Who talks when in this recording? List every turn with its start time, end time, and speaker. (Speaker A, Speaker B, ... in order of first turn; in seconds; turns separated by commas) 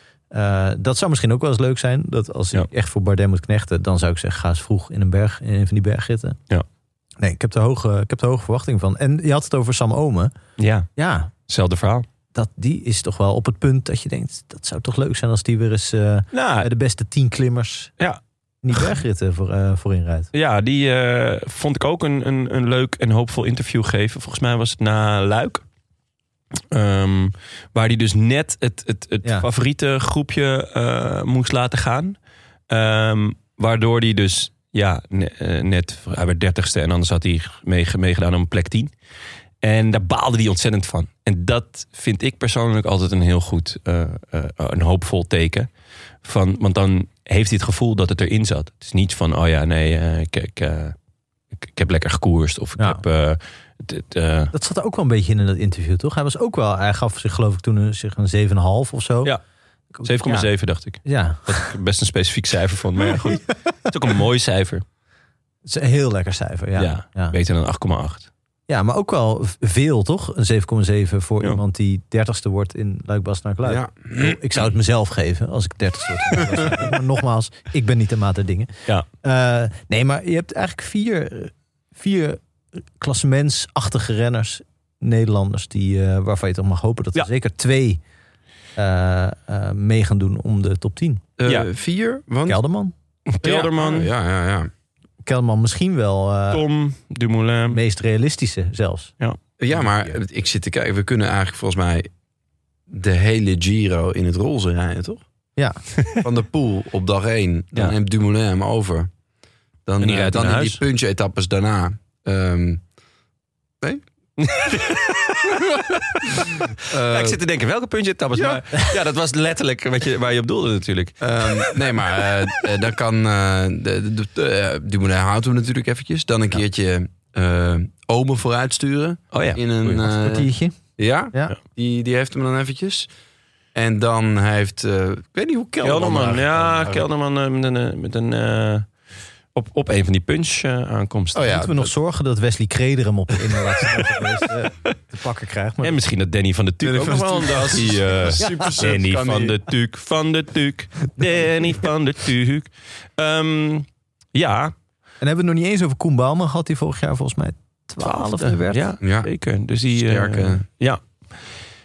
Speaker A: 0.3-6.4, Speaker A: 7.2-10.3, Speaker B: 10.6-10.9, Speaker A: 11.0-11.3, Speaker B: 11.5-12.1, Speaker A: 12.3-17.9, Speaker B: 16.3-16.7, Speaker A: 18.6-20.3, Speaker B: 20.3-25.6, Speaker B: 26.7-32.1, Speaker B: 32.7-38.9, Speaker B: 39.6-45.7, Speaker B: 46.2-50.9, Speaker B: 51.6-54.5, Speaker A: 54.5-59.3, Speaker A: 59.9-60.5, Speaker B: 60.0-64.8, Speaker A: 61.0-61.7, Speaker A: 63.3-63.5, Speaker A: 65.6-67.3, Speaker B: 66.8-68.3, Speaker A: 68.7-78.7, Speaker C: 73.6-74.4, Speaker A: 79.2-82.4, Speaker A: 83.0-88.0, Speaker A: 88.8-91.2, Speaker C: 91.4-92.6, Speaker A: 92.5-92.9, Speaker B: 93.3-94.1, Speaker C: 93.4-94.7, Speaker A: 95.2-96.6, Speaker B: 96.5-97.8, Speaker A: 97.7-99.1, Speaker C: 99.6-102.1, Speaker C: 102.9-105.2, Speaker C: 106.2-109.1, Speaker C: 109.8-112.8, Speaker B: 110.0-110.8, Speaker B: 114.4-115.4, Speaker C: 115.5-117.4, Speaker B: 116.9-121.8, Speaker C: 118.3-118.6, Speaker C: 121.2-133.1, Speaker B: 129.3-130.1, Speaker A: 130.0-130.8, Speaker C: 133.7-137.1, Speaker B: 135.8-138.9, Speaker B: 139.5-141.5, Speaker C: 141.3-141.9, Speaker A: 141.4-146.0, Speaker B: 143.8-144.2, Speaker B: 145.8-154.7, Speaker C: 146.8-149.6, Speaker A: 155.2-158.8, Speaker B: 158.0-161.3, Speaker C: 159.0-159.3, Speaker C: 159.9-160.6